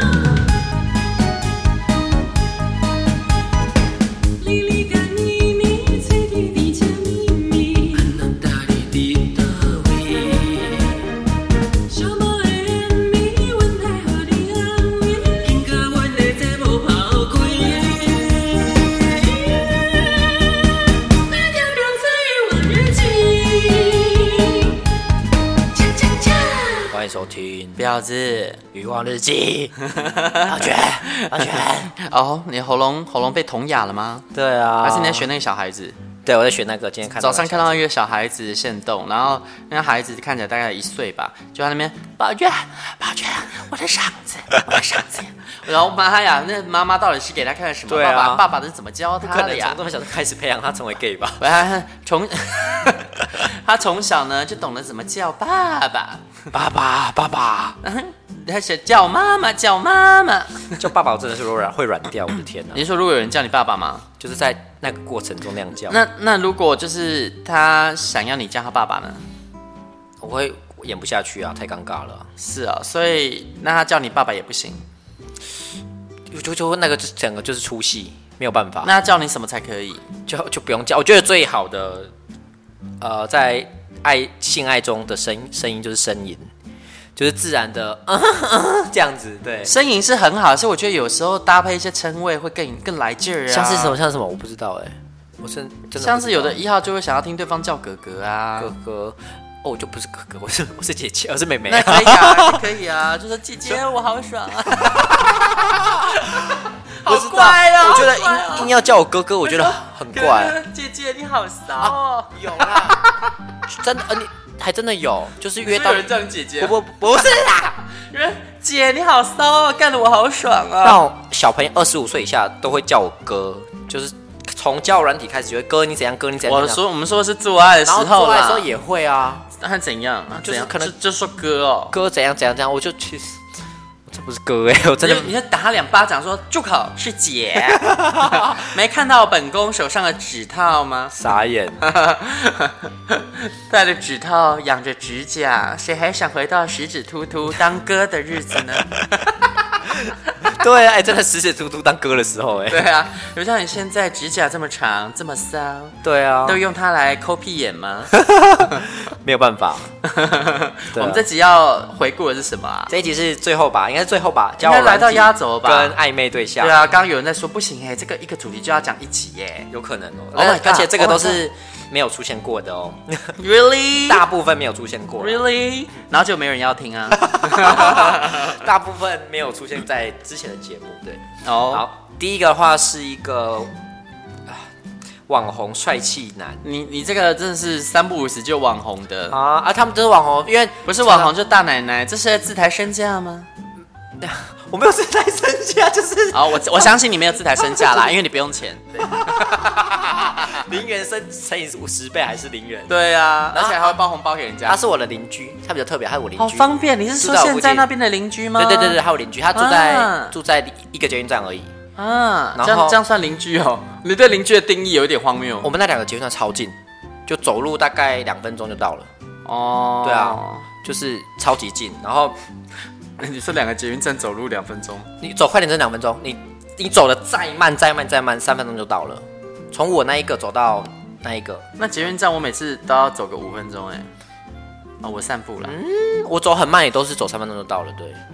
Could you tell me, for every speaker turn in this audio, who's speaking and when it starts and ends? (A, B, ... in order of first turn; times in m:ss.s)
0:07.9-0:10.9 A
0:11.9-0:18.4 A
0:21.3-0:24.2 A
0:25.9-0:26.6 A
0:26.8-0:27.8 B
0:27.8-0:28.6 C
0:28.7-0:29.8 B
0:29.9-0:34.2 C
0:30.3-0:31.9 B
0:34.3-0:35.3 B
0:34.8-0:36.0 C
0:36.2-0:37.8 B
0:37.2-0:49.8 C
0:47.9-0:48.4 B
0:49.2-0:51.5 B
0:51.4-0:56.4 C
0:56.5-0:57.8 B
0:57.8-1:00.8 C
1:00.8-1:02.8 B
1:02.7-1:04.1 C
1:04.2-1:06.0 B
1:05.9-1:09.2 C
1:10.2-1:12.3 B
1:12.4-1:14.8 C
1:16.3-1:18.9 B
1:18.8-1:20.0 C
1:20.2-1:22.1 B
1:23.0-1:26.5 B
1:27.2-1:29.7 B
1:29.6-1:34.0 C
1:33.5-1:36.6 B
1:36.0-1:38.7 C
1:38.6-1:42.6 B
1:41.6-1:48.7 C
1:44.8-1:50.6 B
1:49.4-1:53.3 C
1:51.8-1:53.0 B
1:53.7-1:57.8 B
1:55.6-1:56.8 C
1:58.0-2:01.0 C
2:00.8-2:06.8 B
2:06.4-2:08.7 C
2:07.8-2:09.5 B
2:09.5-2:11.9 C
2:10.4-2:10.9 B
2:11.9-2:13.4 B
2:14.1-2:15.3 B
2:15.0-2:21.1 C
2:17.8-2:18.7 B
2:21.1-2:21.8 B
2:21.8-2:29.0 C
2:29.9-2:32.8 B
2:32.7-2:38.1 C
2:36.0-2:36.6 B
2:38.1-2:39.9 B
2:40.0-2:42.9 C
2:40.9-2:41.2 B
2:42.9-2:46.8 B
2:44.6-2:46.0 C
2:46.6-2:49.7 C
2:49.7-2:53.4 B
2:50.3-2:51.4 C
2:53.4-2:54.2 C
2:54.1-2:55.4 B
2:55.2-2:58.6 C
2:57.2-3:03.7 B
3:01.4-3:01.8 C
3:05.3-3:06.6 B
3:06.6-3:09.4 C
3:09.3-3:11.3 B
3:10.8-3:13.5 C
3:14.2-3:16.9 B
3:16.3-3:19.7 C
3:17.6-3:18.1 B
3:19.0-3:23.0 B
3:22.9-3:24.8 C
3:23.5-3:23.9 B
3:24.6-3:27.9 B
3:26.4-3:29.0 C
3:28.6-3:31.7 B
3:29.5-3:30.4 C
3:32.0-3:35.7 C
3:32.5-3:33.0 B
3:35.6-3:36.8 B
3:37.3-3:39.1 B
3:39.4-3:40.6 C
3:40.0-3:42.4 B
3:43.2-3:45.1 C
3:45.2-3:51.7 B
3:51.8-3:54.1 C
3:55.0-3:55.8 C
3:55.6-3:58.2 B